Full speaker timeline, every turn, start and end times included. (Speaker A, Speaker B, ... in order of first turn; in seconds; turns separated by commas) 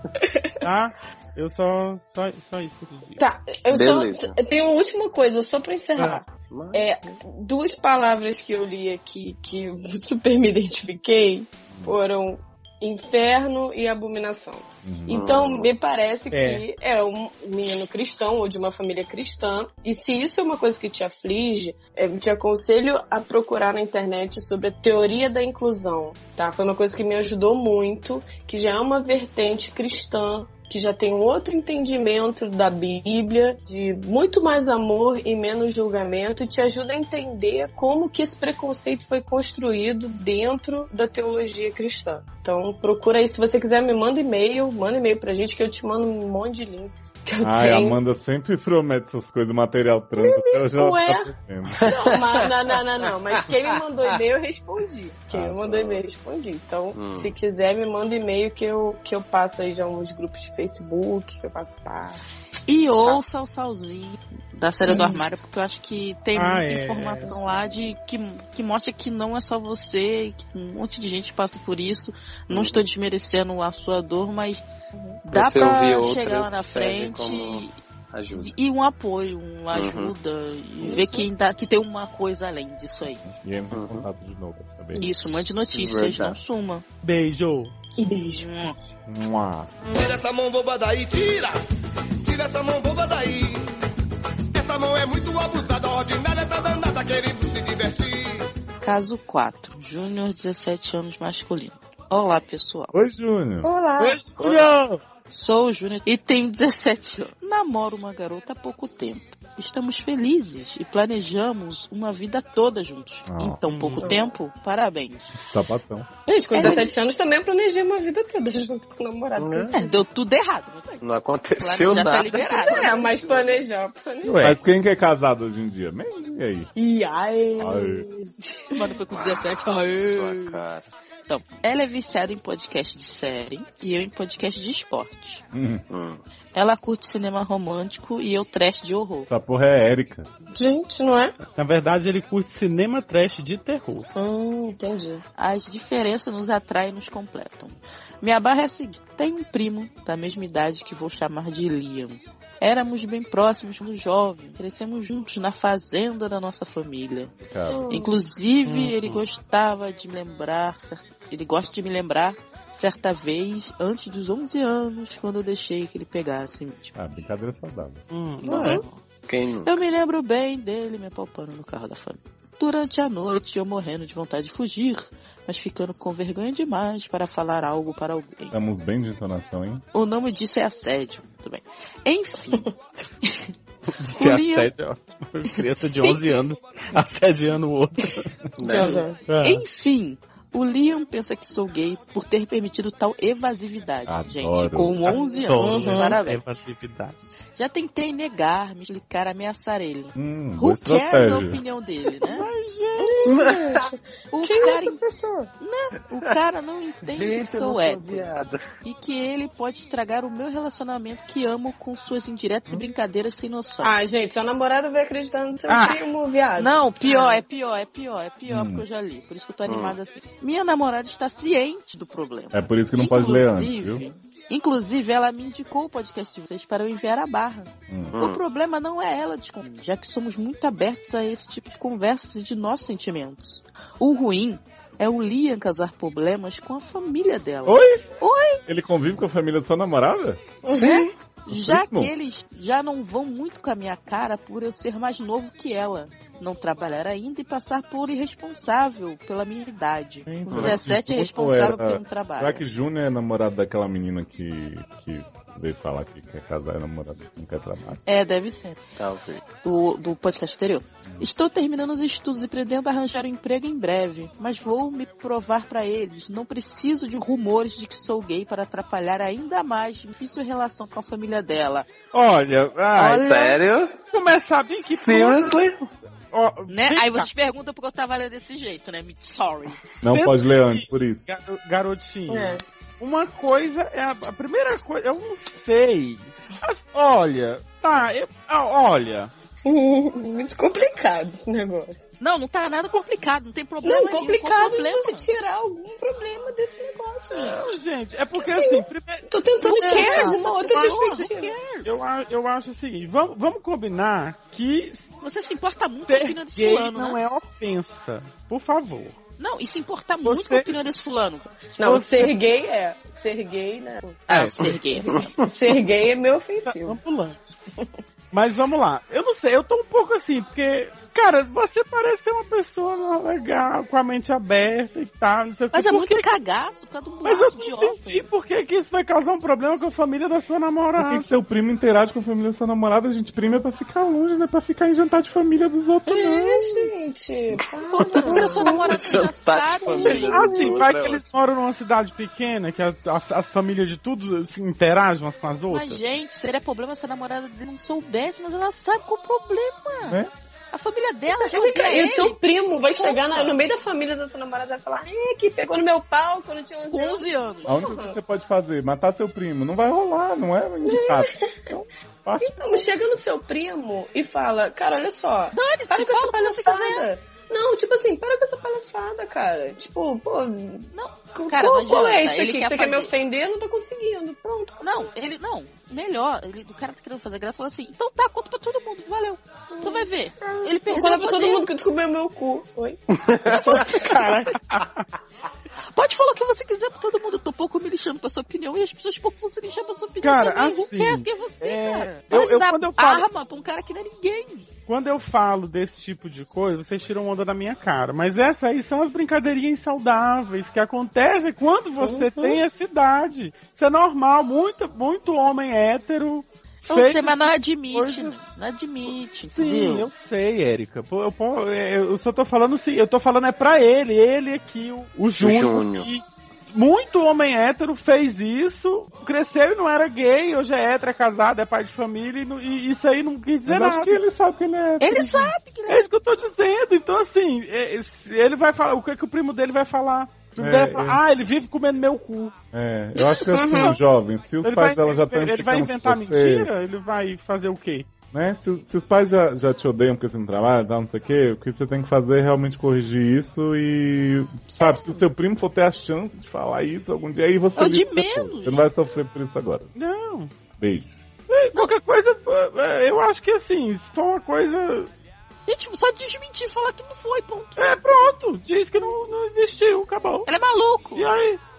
Speaker A: 0.2-0.5, Speaker B: 0.6-3.2, Speaker A: 3.2-48.0, Speaker C: 3.7-4.4, Speaker C: 6.5-7.2, Speaker D: 11.7-12.0, Speaker D: 14.8-15.4, Speaker C: 15.1-15.7, Speaker B: 16.3-16.6, Speaker D: 47.4-51.8, Speaker A: 50.2-51.3, Speaker C: 51.8-52.5, Speaker A: 51.9-62.2, Speaker D: 55.3-55.8, Speaker C: 55.6-56.0, Speaker C: 56.9-57.4, Speaker E: 62.7-74.7, Speaker A: 64.8-65.4, Speaker B: 66.3-67.3, Speaker A: 67.2-67.6, Speaker C: 72.5-72.8, Speaker E: 75.2-77.8, Speaker C: 75.3-78.5, Speaker E: 78.3-83.2, Speaker C: 79.7-80.1, Speaker A: 80.8-81.3, Speaker D: 83.2-85.3, Speaker C: 83.7-84.1, Speaker E: 85.0-86.8, Speaker C: 85.7-86.4, Speaker B: 87.0-87.7, Speaker A: 88.0-88.6, Speaker E: 88.3-88.8, Speaker D: 89.1-89.7, Speaker F: 90.0-91.5, Speaker F: 92.2-93.6, Speaker F: 94.5-98.3, Speaker E: 98.8-102.9, Speaker D: 102.9-103.7, Speaker A: 103.6-104.2, Speaker B: 104.0-105.0, Speaker C: 104.4-104.7, Speaker E: 105.3-115.4, Speaker D: 113.3-113.6, Speaker B: 113.7-114.2, Speaker A: 114.0-114.3, Speaker D: 115.4-116.1, Speaker A: 116.3-120.0, Speaker E: 116.5-116.9, Speaker C: 119.4-119.8, Speaker E: 119.7-123.1, Speaker C: 121.0-123.6, Speaker A: 122.6-124.6, Speaker B: 124.2-124.6, Speaker D: 124.4-126.7, Speaker A: 126.8-129.0, Speaker D: 127.6-128.1, Speaker E: 128.8-130.6, Speaker C: 129.2-130.9, Speaker E: 131.3-135.4, Speaker D: 135.5-135.8, Speaker C: 135.9-136.2, Speaker E: 136.5-139.3, Speaker D: 139.3-140.3, Speaker A: 140.5-141.3, Speaker B: 141.6-144.1, Speaker A: 144.2-145.2, Speaker E: 145.4-157.3, Speaker D: 157.4-157.9, Speaker A: 157.7-158.2, Speaker E: 157.9-167.0, Speaker B: 158.7-158.9, Speaker D: 167.0-168.0, Speaker B: 168.1-168.8, Speaker A: 168.4-168.8, Speaker E: 168.6-169.0, Speaker C: 169.3-169.8, Speaker E: 169.7-178.6, Speaker D: 178.5-179.8, Speaker E: 179.9-182.7, Speaker B: 183.9-188.3, Speaker E: 184.1-184.7, Speaker C: 188.6-189.1, Speaker A: 188.6-189.2, Speaker B: 189.3-189.6, Speaker E: 189.4-196.4, Speaker D: 194.1-195.2, Speaker B: 195.1-197.2, Speaker A: 195.6-196.2, Speaker E: 197.6-202.5, Speaker D: 200.2-201.6, Speaker B: 202.2-203.4, Speaker A: 203.0-205.5, Speaker C: 203.3-203.9, Speaker E: 204.3-205.0, Speaker E: 205.6-208.3, Speaker C: 207.0-208.6, Speaker E: 208.8-214.0, Speaker A: 213.8-217.4, Speaker B: 215.7-215.9, Speaker E: 216.6-238.6, Speaker D: 218.5-218.8, Speaker C: 219.7-220.0, Speaker D: 222.5-224.0, Speaker D: 227.9-228.2, Speaker C: 228.1-228.4, Speaker D: 237.7-238.1, Speaker D: 238.7-240.4, Speaker A: 240.7-241.1, Speaker E: 240.7-252.6, Speaker D: 241.5-242.1, Speaker D: 250.3-258.0, Speaker C: 250.5-250.8, Speaker E: 258.1-258.8, Speaker C: 259.0-259.4, Speaker E: 259.6-271.9, Speaker B: 272.1-273.6, Speaker E: 273.0-273.6, Speaker C: 273.0-273.9, Speaker B: 274.1-275.7, Speaker C: 274.8-275.8, Speaker B: 276.3-277.3, Speaker E: 276.7-279.8, Speaker B: 280.0-289.3, Speaker D: 280.0-281.3, Speaker A: 282.3-282.6, Speaker A: 289.6-292.1, Speaker E: 292.2-295.3, Speaker A: 293.8-297.7, Speaker B: 297.3-301.2, Speaker A: 298.3-301.6, Speaker E: 299.6-302.1, Speaker B: 301.9-305.1, Speaker E: 305.2-307.2, Speaker B: 306.1-309.2, Speaker E: 309.4-311.6, Speaker B: 310.2-310.7, Speaker A: 311.8-314.2, Speaker B: 311.8-312.3, Speaker B: 314.3-314.7, Speaker E: 314.3-315.3, Speaker C: 315.2-315.5, Speaker A: 315.4-317.0, Speaker B: 316.7-317.6, Speaker B: 318.3-326.4, Speaker E: 325.7-328.3, Speaker B: 327.2-331.3, Speaker D: 331.0-336.9, Speaker A: 336.1-339.2, Speaker E: 337.9-340.6, Speaker C: 338.2-341.2, Speaker B: 340.1-346.0, Speaker E: 345.7-350.2, Speaker D: 350.1-350.3, Speaker E: 350.7-353.6, Speaker A: 351.3-358.2, Speaker E: 356.9-357.8, Speaker D: 357.7-362.9, Speaker A: 360.9-361.5, Speaker A: 362.4-374.9, Speaker E: 365.5-367.1, Speaker E: 370.9-373.1, Speaker E: 374.8-381.7, Speaker A: 379.7-384.6, Speaker C: 383.1-384.0, Speaker B: 384.1-384.9, Speaker E: 385.9-394.7, Speaker B: 390.2-393.3, Speaker B: 394.9-408.4, Speaker A: 402.0-402.6, Speaker E: 406.9-410.1, Speaker B: 409.1-424.2, Speaker C: 415.4-416.1, Speaker D: 423.7-425.5, Speaker E: 425.0-426.0, Speaker B: 425.9-432.5, Speaker D: 430.6-431.2, Speaker D: 432.7-436.7, Speaker A: 433.3-434.0, Speaker B: 434.6-438.1, Speaker D: 438.3-449.9, Speaker E: 447.8-448.8, Speaker B: 450.0-450.5, Speaker D: 450.8-451.1, Speaker B: 451.5-455.1, Speaker E: 455.7-458.2, Speaker B: 457.8-460.5, Speaker E: 460.5-461.3, Speaker B: 461.1-461.6